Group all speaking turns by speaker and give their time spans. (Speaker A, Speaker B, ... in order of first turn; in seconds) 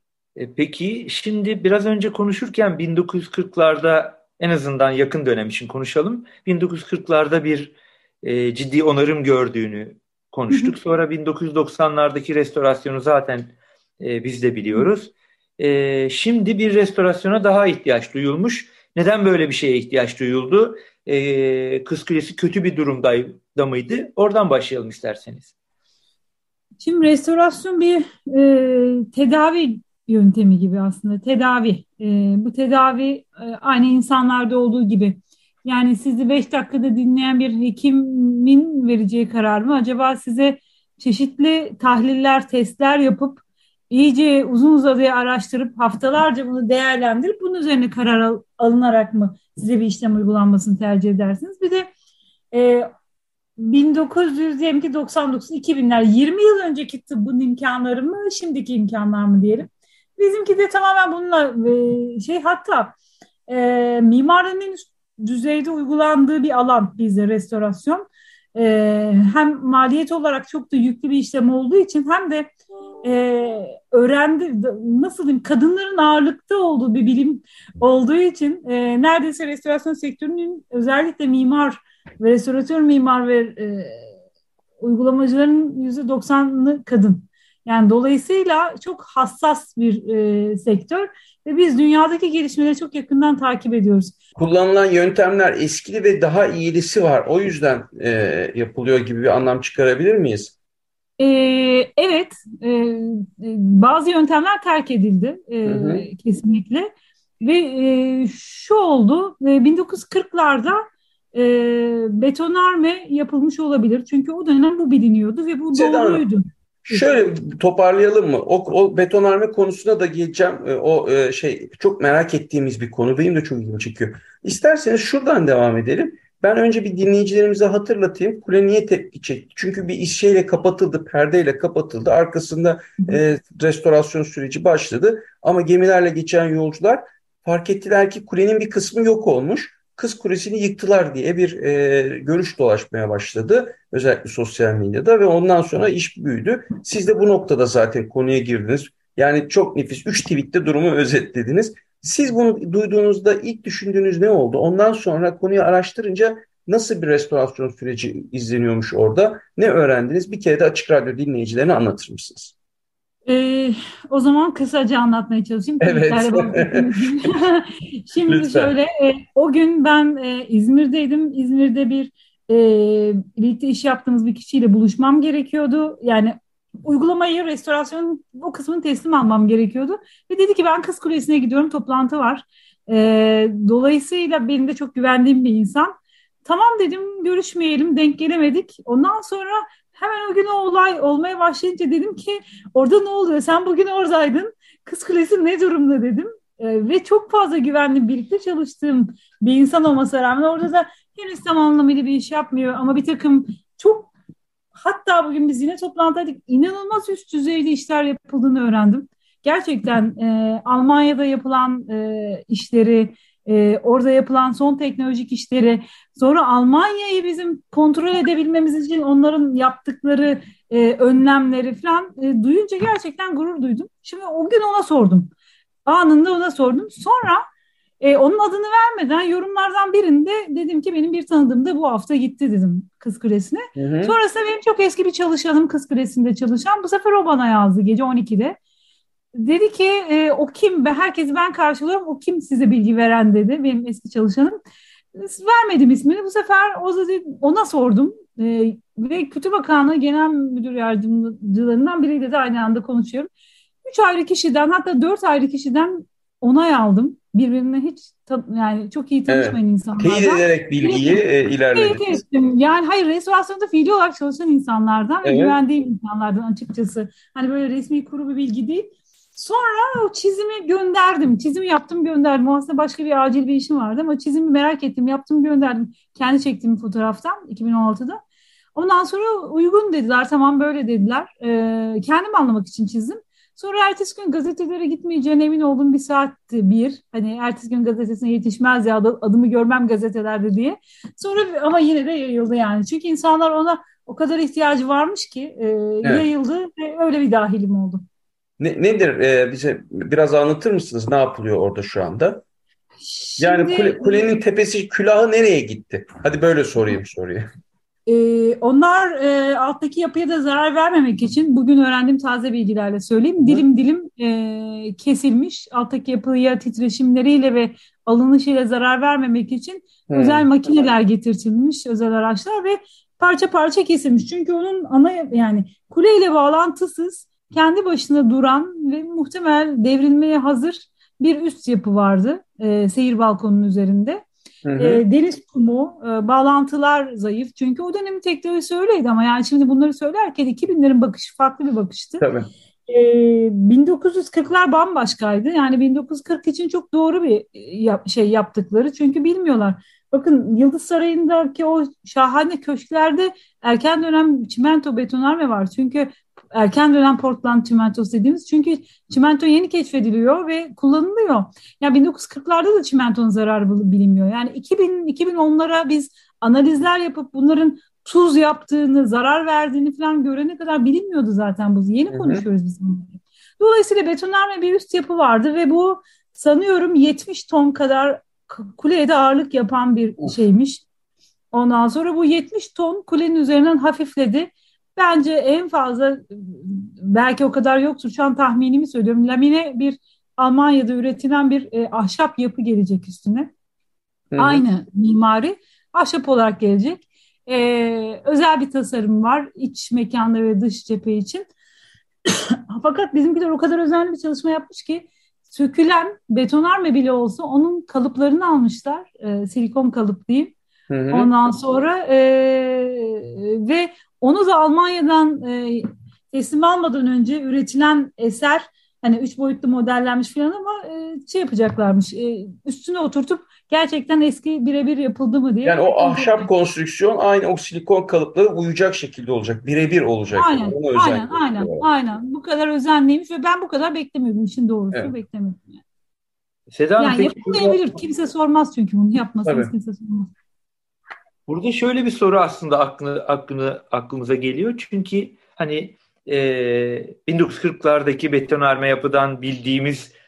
Speaker A: 0.4-25.5, 436.7-437.8, 441.5-450.1
Speaker B: 10.5-10.8, 26.8-51.9, 52.5-52.9, 53.6-63.0, 63.5-72.5, 73.0-84.1, 84.8-94.2, 101.2-117.1, 163.3-185.9, 186.4-204.1, 204.8-225.3, 225.9-227.5, 228.0-238.6, 239.3-244.6, 245.1-253.3, 253.8-261.2, 261.7-278.2, 278.8-298.0, 303.0-304.4, 308.1-334.2, 334.8-342.3, 342.9-380.8, 381.5-393.5, 394.4-401.4, 402.3-410.5, 411.1-426.5, 430.4-435.8, 437.0-440.3
Speaker C: 94.4-100.5, 105.7-106.0, 115.7-116.2, 116.9-162.5, 165.8-167.3, 168.3-168.7, 233.8-234.2, 259.3-262.2, 265.2-265.6, 298.6-302.4, 303.4-307.5, 320.1-320.4, 334.6-335.0, 342.2-342.5, 372.1-372.4, 394.3-394.6, 410.9-411.3, 425.6-431.9, 439.4-439.7